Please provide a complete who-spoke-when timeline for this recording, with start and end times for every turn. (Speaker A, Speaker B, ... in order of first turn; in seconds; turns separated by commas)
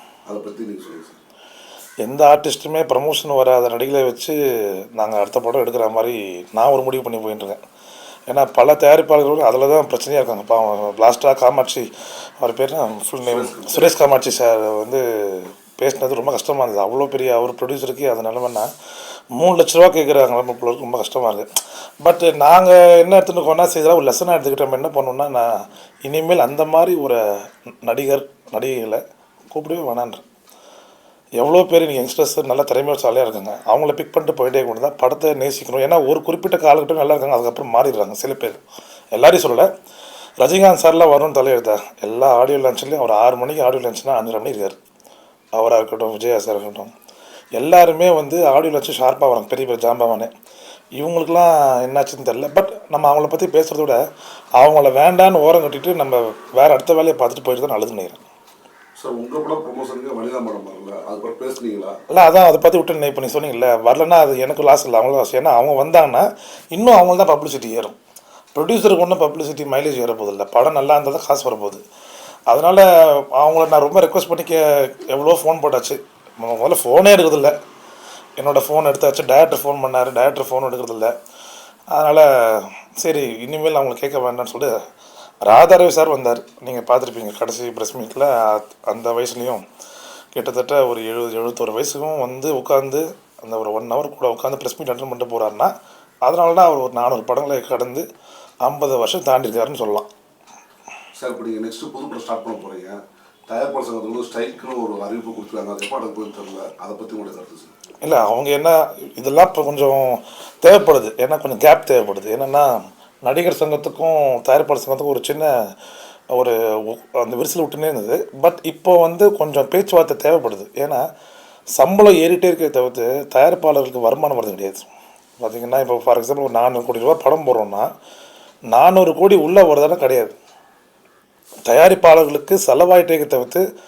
Speaker A: 0.3-1.2, Speaker B: 2.0-4.3, Speaker B: 5.0-7.6, Speaker B: 8.3-11.8, Speaker B: 12.4-18.7, Speaker A: 13.2-13.9, Speaker B: 19.4-21.4, Speaker B: 22.0-27.2, Speaker B: 27.8-29.0, Speaker B: 29.5-30.2, Speaker B: 31.4-38.6, Speaker B: 39.1-39.7, Speaker B: 40.4-44.8, Speaker B: 45.5-46.9, Speaker B: 47.6-50.3, Speaker B: 51.0-54.0, Speaker B: 54.6-58.2, Speaker A: 59.0-62.0, Speaker B: 62.1-67.9, Speaker B: 68.5-71.8, Speaker B: 72.5-77.5, Speaker B: 78.4-81.1, Speaker B: 81.9-84.7, Speaker B: 85.4-89.6, Speaker B: 90.3-95.7, Speaker B: 96.2-98.0, Speaker B: 98.6-100.1, Speaker A: 101.2-107.7, Speaker B: 108.0-115.5, Speaker B: 116.3-121.0, Speaker B: 121.8-124.9, Speaker B: 125.4-127.9, Speaker B: 128.7-130.3, Speaker B: 131.7-133.6